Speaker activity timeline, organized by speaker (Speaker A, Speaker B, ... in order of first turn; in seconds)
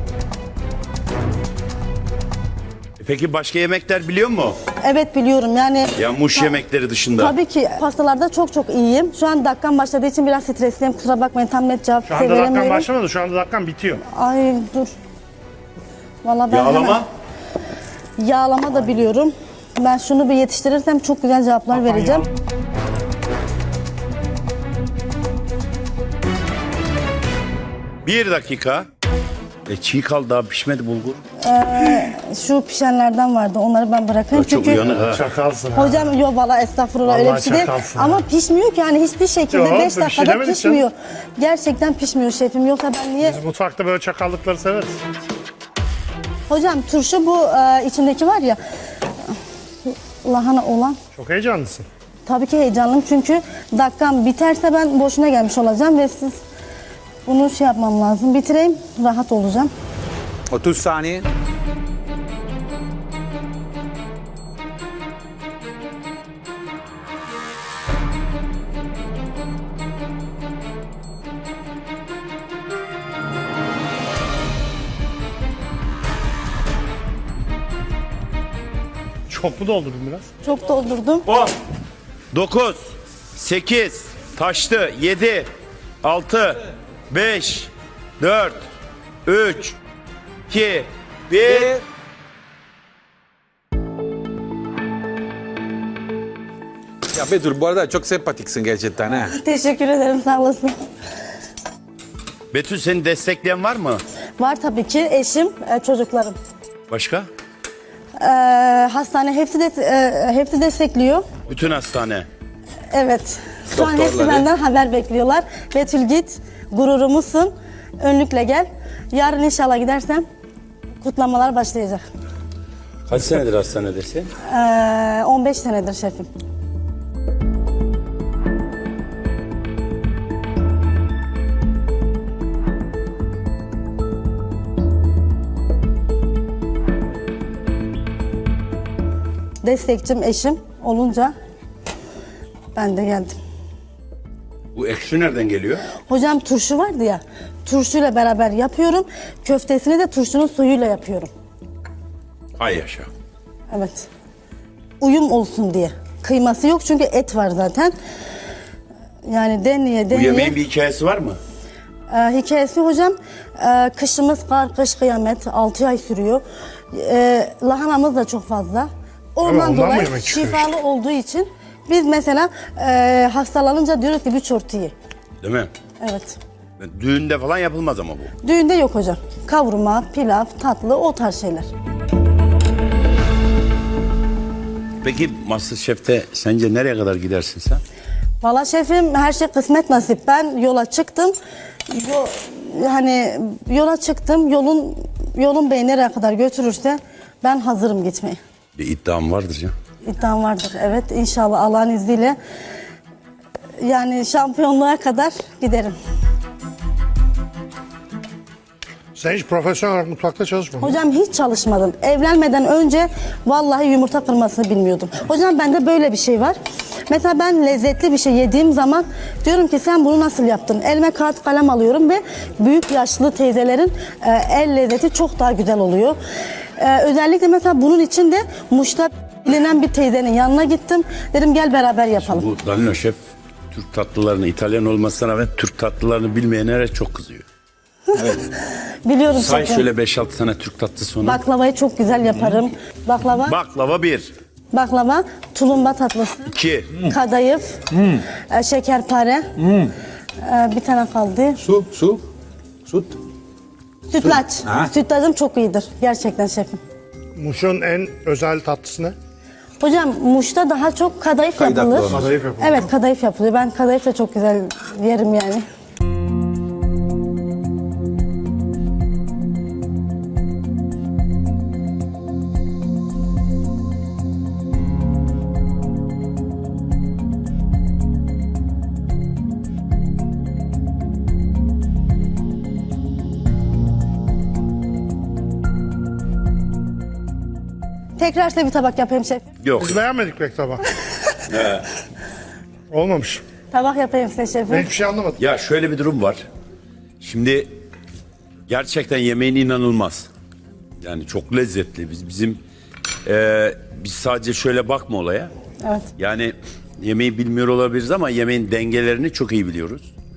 Speaker A: 3.0-4.6, 6.0-7.3, 16.5-17.1, 28.0-28.9, 29.7-31.2, 34.3-35.2, 82.3-82.8, 83.3-85.5, 86.0-88.6, 89.2-89.8, 90.5-91.7, 102.5-104.0, 106.9-107.3, 111.5-112.3, 123.1-124.3, 144.7-145.8, 152.6-153.1, 160.1-161.4, 175.4-175.7, 176.8-178.3, 185.0-187.8, 198.8-199.7, 232.2-233.2, 233.7-237.4, 239.3-241.4, 243.4-244.3, 246.5-246.9, 289.6-290.0, 291.5-291.9, 295.4-296.4, 297.2-297.7, 298.7-300.3, 301.0-302.6, 303.2-305.5, 306.2-310.1
Speaker B: 4.8-6.5, 7.2-12.9, 14.0-14.9, 16.2-17.0, 18.2-22.3, 31.4-34.9, 35.7-43.4, 46.5-48.6, 49.9-51.0, 52.2-56.4, 57.2-59.7, 80.4-81.3, 99.1-100.7, 104.4-106.3, 108.2-111.2, 112.9-120.2, 121.0-122.0, 124.4-126.3, 139.6-141.3, 142.7-143.4, 146.1-151.3, 153.7-154.1, 155.0-157.9, 159.2-160.6, 162.1-174.9, 176.0-176.4, 178.4-181.7, 188.4-191.3, 191.9-198.4, 200.0-202.4, 203.8-206.0, 210.8-216.6, 217.1-226.2, 226.8-232.4, 238.1-239.9, 241.2-243.6, 244.7-246.6, 247.1-249.5, 250.4-251.6, 254.1-256.8, 259.8-265.6, 288.2-289.5, 293.7-294.9, 305.8-306.1
Speaker C: 12.1-14.0, 34.9-36.1, 37.0-38.2, 39.5-40.8, 43.2-45.0, 51.1-51.9, 79.3-80.3, 169.4-170.7, 209.2-210.9, 257.4-259.1, 262.1-262.9, 289.8-290.8, 292.9-293.4, 294.7-295.4
Speaker D: 60.5-61.3, 91.5-91.8, 97.1-99.3, 113.7-114.5, 247.9-248.2, 249.6-249.9, 251.6-252.2, 252.9-253.2, 254.2-254.9, 261.6-262.3